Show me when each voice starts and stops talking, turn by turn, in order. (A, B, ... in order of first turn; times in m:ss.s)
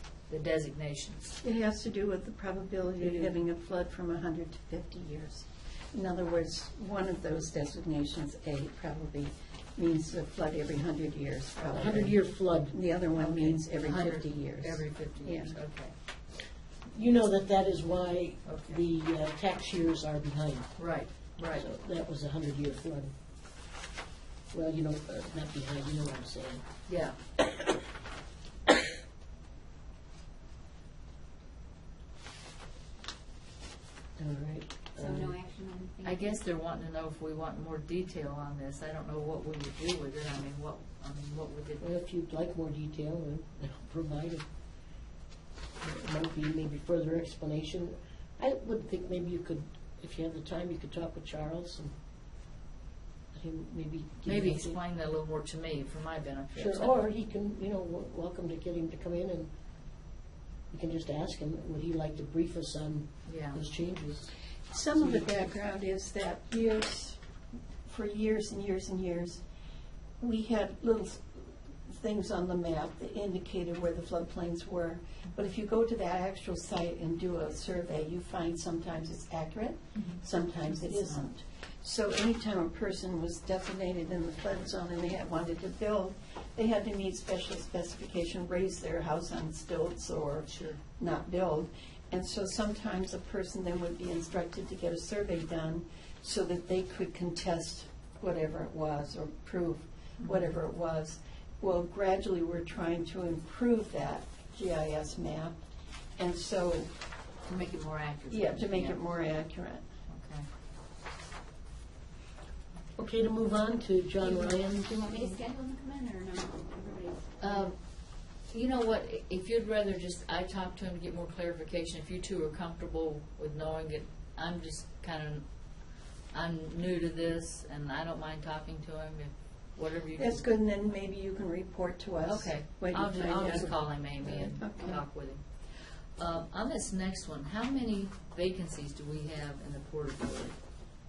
0:00.3-0:01.4 A
0:01.4-0:15.6 B
0:03.0-0:03.3 A
0:11.7-0:12.8 C
0:13.2-0:15.9 A
0:16.9-0:20.8 C
0:18.4-0:18.8 A
0:20.8-0:21.6 A
0:21.5-0:23.1 C
0:24.5-0:26.6 C
0:26.9-0:27.2 A
0:27.4-0:27.7 C
0:34.2-0:35.3 C
0:35.0-0:36.4 D
0:36.0-0:41.9 A
0:41.8-0:44.5 C
0:45.8-0:51.9 C
0:53.3-0:54.8 C
0:54.2-0:57.0 A
0:56.5-0:59.5 C
1:00.7-1:04.3 C
1:03.3-1:03.6 A
1:04.7-1:07.2 B
1:05.0-1:05.5 C
1:07.8-1:09.4 B
1:10.2-1:45.6 B
1:20.0-1:21.2 A
1:30.5-1:30.8 A
1:40.2-1:40.5 A
1:46.2-1:46.9 B
1:47.5-1:49.0 A
1:48.3-1:49.9 B
1:50.1-1:50.5 A
1:53.0-1:55.0 C
1:54.2-1:57.7 D
1:57.4-2:10.4 A
2:10.2-2:15.0 B
2:12.2-2:20.6 A